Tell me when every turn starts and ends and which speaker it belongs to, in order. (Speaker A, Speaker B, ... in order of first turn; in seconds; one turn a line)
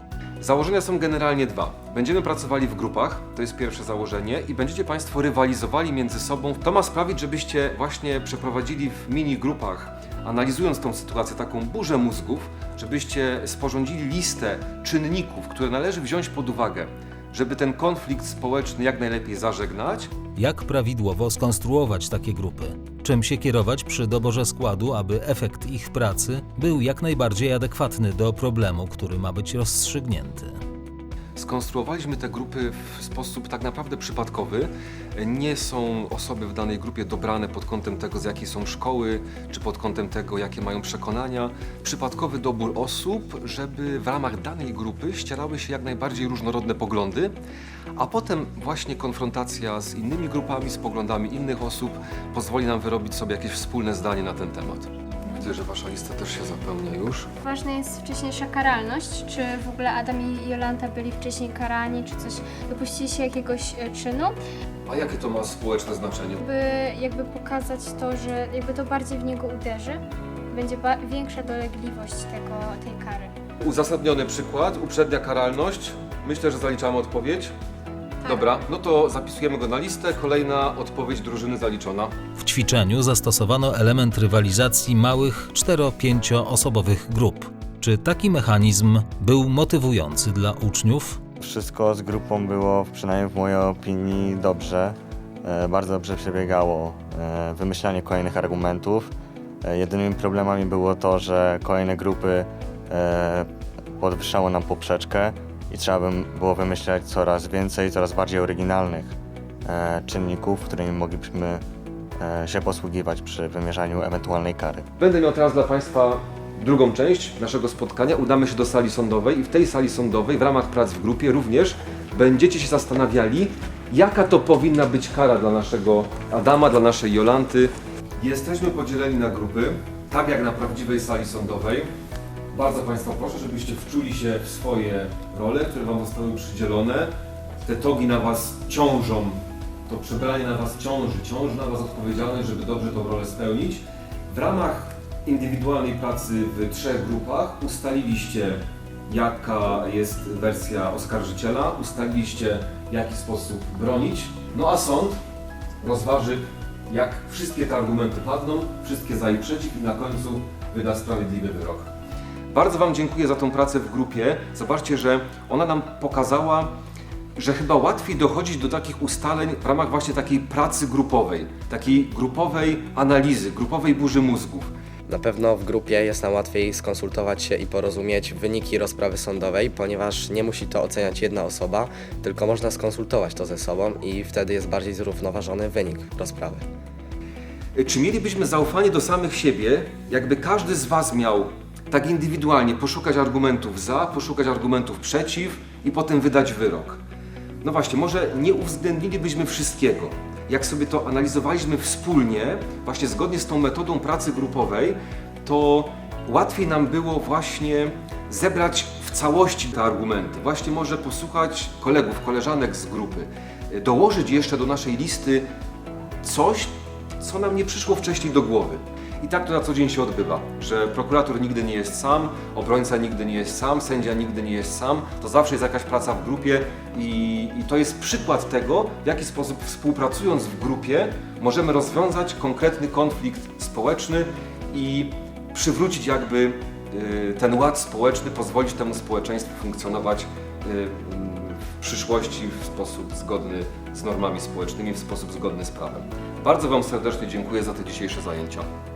Speaker A: 0.4-20.1
Speaker B: 20.4-30.6
Speaker A: 31.4-47.3
Speaker A: 48.0-57.3
Speaker C: 57.4-64.3
Speaker A: 64.9-66.4
Speaker C: 66.4-73.3
Speaker A: 73.6-77.5
Speaker A: 78.2-82.1
Speaker B: 82.4-91.2
Speaker D: 91.4-99.1
Speaker D: 99.6-103.5
Speaker D: 104.0-111.6
Speaker D: 112.2-114.9
Speaker A: 115.0-131.9
Speaker A: 132.5-155.2
Speaker A: 155.8-161.9
Speaker A: 162.5-166.7
Speaker A: 167.4-174.7
Speaker E: 175.1-186.7
Speaker A: 187.7-197.0
Speaker A: 197.6-215.5
Speaker A: 216.2-248.7